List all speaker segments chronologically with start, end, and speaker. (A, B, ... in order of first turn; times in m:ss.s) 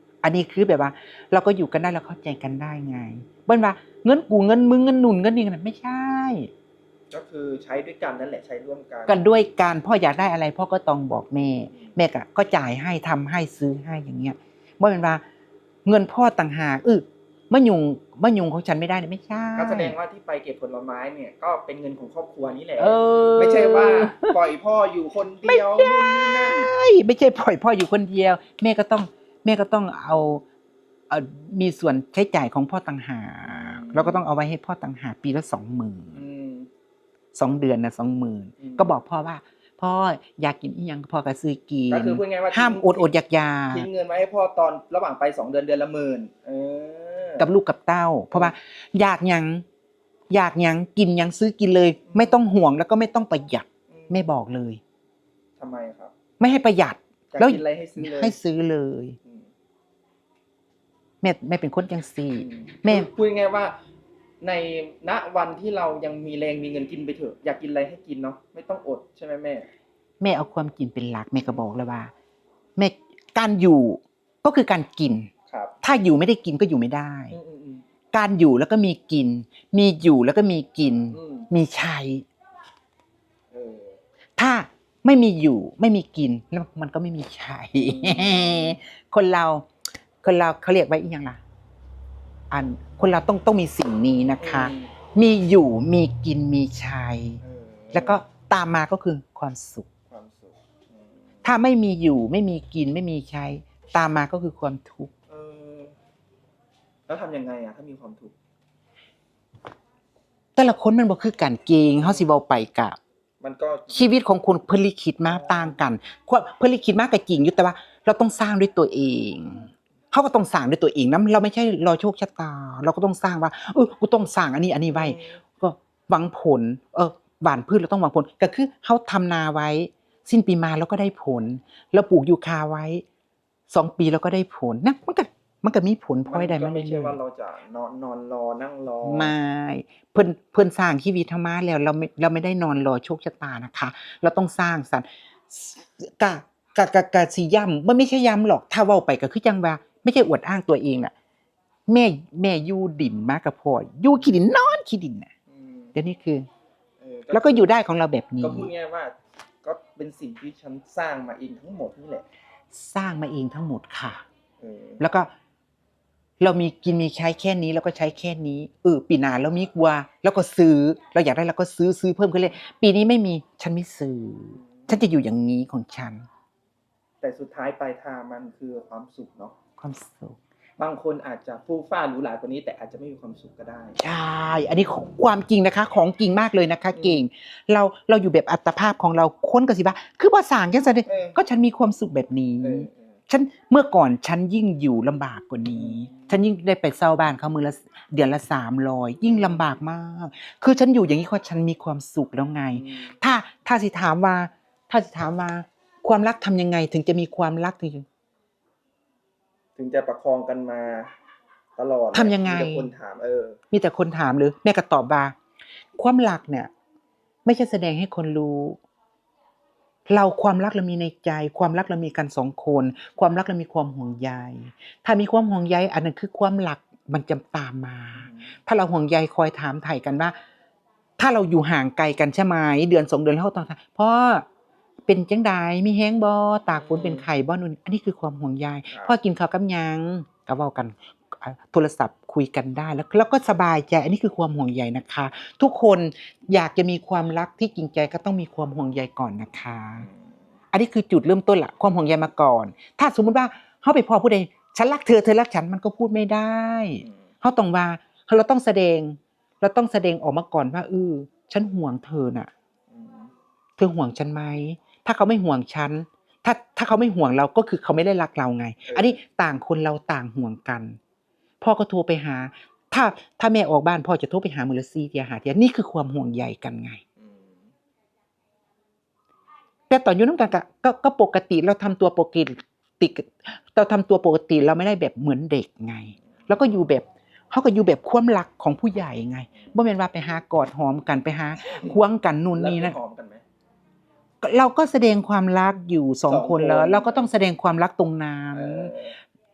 0:00.2-0:06.5 A
0:07.1-0:09.2 B
0:09.1-0:15.2 A
0:11.7-0:12.0 B
0:15.8-0:20.0 A
0:19.6-0:26.6 B
0:22.8-0:24.4 A
0:25.5-0:30.4 A
0:31.1-0:36.2 A
0:33.4-0:34.2 B
0:36.1-0:36.7 B
0:37.3-0:43.9 A
0:38.6-0:38.9 B
0:41.9-0:43.1 B
0:43.7-0:47.5 B
0:47.4-0:49.6 A
0:50.3-0:54.8 A
0:52.1-0:52.4 B
0:53.9-0:54.3 B
0:55.6-0:56.1 B
0:56.4-0:59.2 A
0:57.3-0:58.4 B
0:59.2-0:59.5 B
1:01.2-1:03.1 A
1:02.4-1:03.8 B
1:04.4-1:09.7 B
1:10.2-1:12.1 A
1:12.8-1:15.3 A
1:15.5-1:15.8 B
1:15.8-1:17.4 A
1:17.3-1:17.8 B
1:18.1-1:22.2 A
1:21.1-1:21.5 B
1:23.5-1:24.0 B
1:24.4-1:29.7 A
1:27.8-1:28.8 B
1:30.2-1:31.4 A
1:32.5-1:37.4 A
1:34.4-1:34.9 B
1:37.4-1:38.2 B
1:37.9-1:39.9 A
1:40.1-1:41.4 B
1:41.4-1:45.1 A
1:45.3-1:46.0 B
1:47.1-1:48.4 B
1:50.6-1:53.0 A
1:52.0-1:52.3 B
1:53.4-1:54.2 B
1:53.9-2:13.0 A
1:55.2-1:55.8 B
2:04.9-2:05.4 B
2:13.7-2:17.2 A
2:16.3-2:19.3 B
2:19.0-2:31.1 A
2:31.9-2:35.3 A
2:35.5-2:35.9 B
2:36.0-2:36.5 A
2:37.0-2:37.7 B
2:37.3-2:38.7 A
2:38.4-2:42.2 B
2:42.7-2:44.2 A
2:44.6-2:45.0 B
2:45.0-2:45.3 A
2:46.4-2:56.2 A
2:54.5-2:55.0 B
2:57.2-2:59.5 B
2:59.8-3:00.4 A
3:00.8-3:04.0 B
3:04.0-3:28.0 A
3:06.9-3:07.2 B
3:11.1-3:11.4 B
3:12.6-3:13.1 B
3:15.7-3:16.4 B
3:19.3-3:19.6 B
3:22.7-3:23.1 B
3:29.8-3:31.1 B
3:31.8-3:33.6 B
3:32.1-3:32.9 A
3:33.7-3:35.4 A
3:36.0-3:36.7 A
3:37.4-3:38.8 A
3:40.1-3:50.4 A
3:48.2-3:48.5 B
3:51.2-3:54.4 A
3:55.1-4:10.1 A
3:56.8-3:57.3 B
4:10.0-4:10.4 B
4:10.7-4:22.5 A
4:22.9-4:23.3 B
4:23.8-4:31.0 A
4:28.8-4:29.2 B
4:31.6-4:37.0 A
4:37.2-4:37.7 B
4:39.9-4:53.0 A
4:51.6-4:52.0 B
4:52.6-4:53.4 B
4:54.4-4:58.9 A
4:56.3-4:57.3 B
4:58.5-4:59.2 B